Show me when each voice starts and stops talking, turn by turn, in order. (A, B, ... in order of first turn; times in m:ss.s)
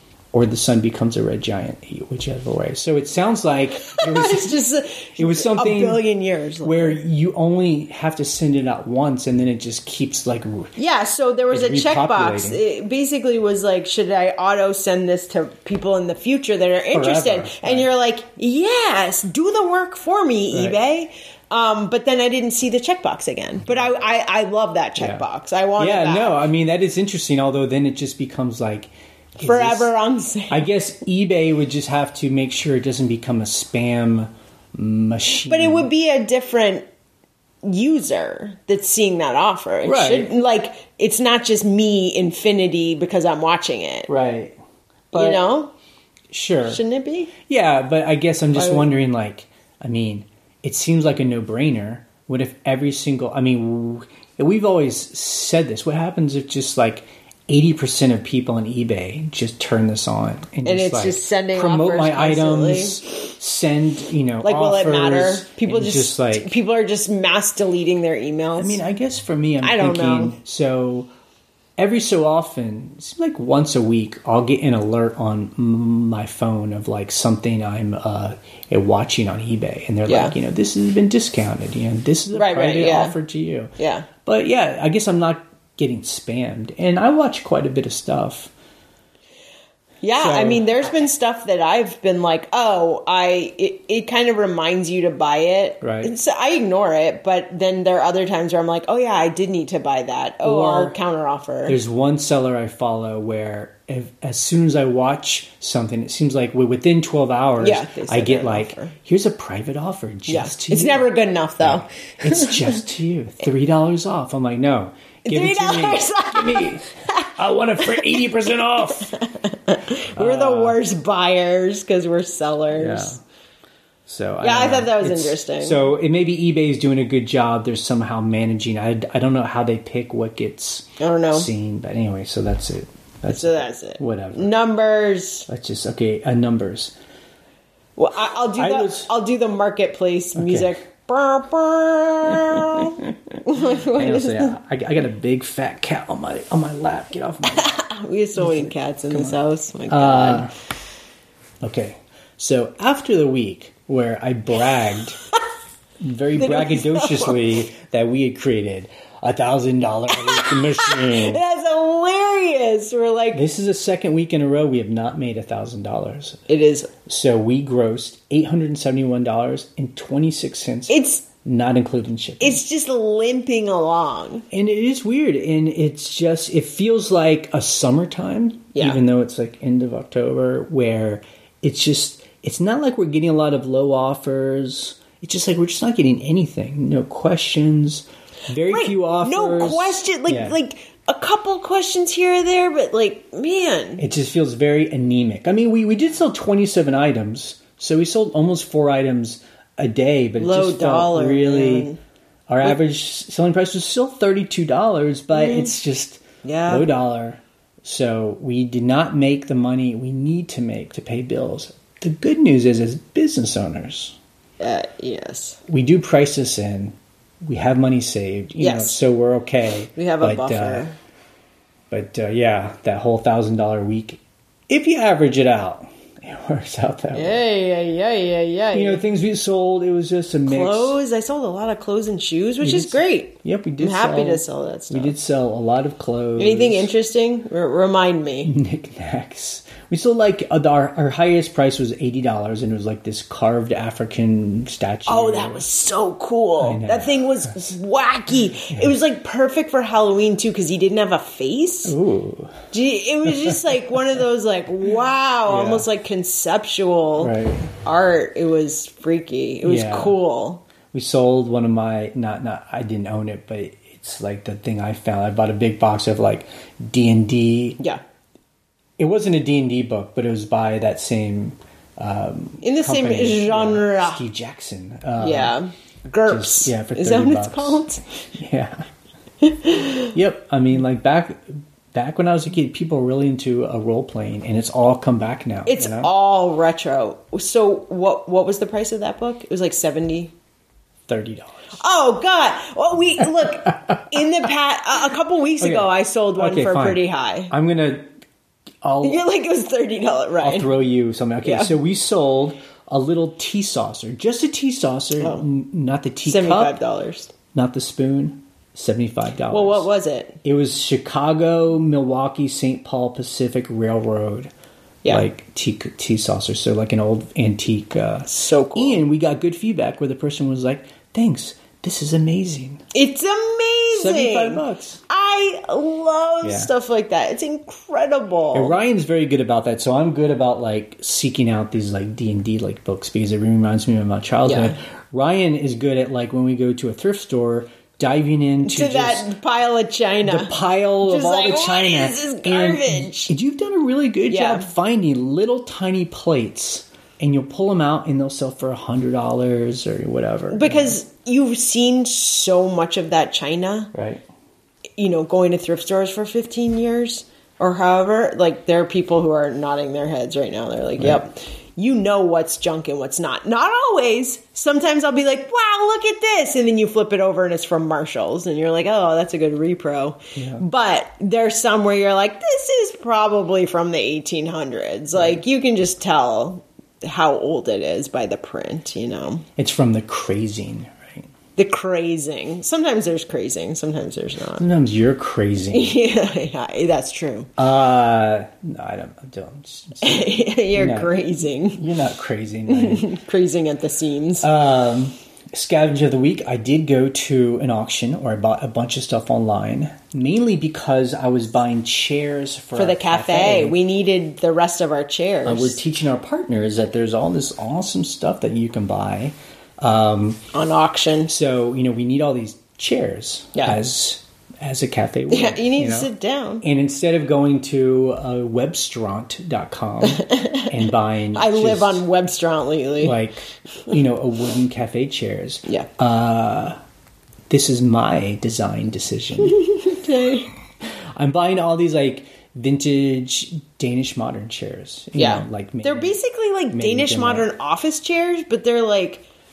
0:00.3-0:04.6 A
0:03.8-0:07.0 B
0:05.2-0:06.0 A
0:06.6-0:10.7 A
0:10.8-0:26.4 B
0:11.5-0:12.6 A
0:16.9-0:17.9 A
0:20.5-0:20.8 A
0:25.0-0:25.2 A
0:25.8-0:29.9 A
0:29.4-0:30.7 B
0:30.5-0:35.9 A
0:35.5-0:36.9 B
0:37.6-0:44.1 B
0:39.8-0:40.3 A
0:44.1-0:44.6 A
0:45.1-0:45.4 A
0:45.1-0:45.7 B
0:46.3-0:46.8 A
0:46.6-0:47.3 B
0:47.4-1:06.6 A
0:48.6-0:48.9 B
1:00.6-1:03.0 B
1:04.4-1:08.8 B
1:08.6-1:11.1 A
1:09.6-1:10.4 B
1:11.8-1:23.7 A
1:20.1-1:20.4 B
1:22.3-1:23.2 B
1:23.8-1:24.1 B
1:24.2-1:28.5 A
1:30.0-1:41.8 B
1:30.2-1:30.7 A
1:35.8-1:36.1 A
1:40.4-1:41.0 A
1:41.7-1:51.1 A
1:47.6-1:48.9 B
1:50.3-1:52.8 B
1:51.6-1:59.2 A
1:55.2-1:57.3 B
1:57.8-1:58.2 B
1:59.0-2:03.1 B
2:00.2-2:00.8 A
2:02.7-2:03.2 A
2:04.1-2:14.5 A
2:04.4-2:05.8 B
2:11.0-2:11.5 B
2:13.3-2:15.5 B
2:15.5-2:17.0 A
2:18.0-2:24.5 B
2:18.6-2:19.1 A
2:20.4-2:20.7 A
2:22.4-2:22.9 A
2:23.7-2:27.7 A
2:27.5-2:30.5 B
2:28.4-2:29.4 A
2:29.9-2:30.5 A
2:31.6-2:35.2 A
2:36.0-2:41.4 A
2:36.4-2:37.4 B
2:40.1-2:43.4 B
2:43.3-2:46.5 A
2:46.5-2:46.9 B
2:47.1-2:52.6 A
2:50.9-2:51.2 B
2:52.4-2:54.5 B
2:54.5-3:10.6 A
2:58.7-2:59.0 B
3:08.7-3:14.0 B
3:14.0-3:21.9 A
3:20.4-3:22.0 B
3:22.5-3:34.2 A
3:25.3-3:25.7 B
3:26.4-3:26.9 B
3:34.6-3:35.6 B
3:35.7-3:40.9 A
3:38.6-3:39.0 B
3:40.0-3:41.0 B
3:41.9-3:47.4 A
3:47.1-3:49.0 B
3:48.7-3:51.0 A
3:50.4-3:55.1 B
3:52.6-3:56.9 A
3:56.4-3:58.5 B
3:58.4-4:05.6 A
4:05.1-4:12.0 B
4:06.6-4:07.7 A
4:11.9-4:12.6 A
4:12.7-4:20.6 B
4:13.3-4:13.6 A
4:15.5-4:15.9 A
4:17.2-4:17.7 A
4:19.6-4:20.2 A
4:20.9-4:27.8 A
4:29.0-4:35.6 A
4:32.6-4:34.2 B
4:35.2-4:38.0 B
4:36.3-4:38.9 A
4:39.4-4:40.1 B
4:40.1-4:46.1 A
4:45.7-4:50.3 B
4:51.1-4:51.8 A
4:51.8-4:57.5 B
4:55.6-4:58.1 A
4:58.8-4:59.2 A
4:59.0-5:00.7 B
5:00.4-5:06.8 A
5:01.4-5:01.7 B
5:05.2-5:05.4 B
5:06.2-5:07.3 B
5:07.5-5:09.9 A
5:09.5-5:10.4 B
5:10.4-5:14.5 A
5:15.1-5:22.8 A
5:18.3-5:19.0 B
5:22.9-5:28.8 B
5:23.9-5:25.0 A
5:26.4-5:26.7 A
5:28.5-5:39.3 A
5:34.4-5:34.8 B
5:38.6-5:43.3 B
5:40.2-5:51.0 A
5:44.3-5:44.7 B
5:50.5-5:53.9 B
5:53.9-5:54.2 A
5:55.0-6:19.5 B
6:01.0-6:01.3 A
6:10.4-6:10.6 A
6:19.6-6:21.3 A
6:21.6-6:24.6 B
6:24.6-6:26.0 A
6:25.7-6:27.5 B
6:27.6-6:33.1 A
6:30.0-6:31.8 B
6:32.7-6:34.5 B
6:34.4-6:43.8 A
6:42.8-6:45.8 B
6:45.4-6:50.4 A
6:50.5-6:51.3 B
6:51.3-6:56.1 A
6:55.3-6:56.6 B
6:56.6-7:02.0 A
7:00.0-7:00.7 B
7:01.3-7:03.2 B
7:03.0-7:06.8 A
7:07.5-7:09.6 A
7:09.4-7:10.5 B
7:11.2-7:16.2 A
7:15.2-7:19.3 B
7:16.7-7:17.5 A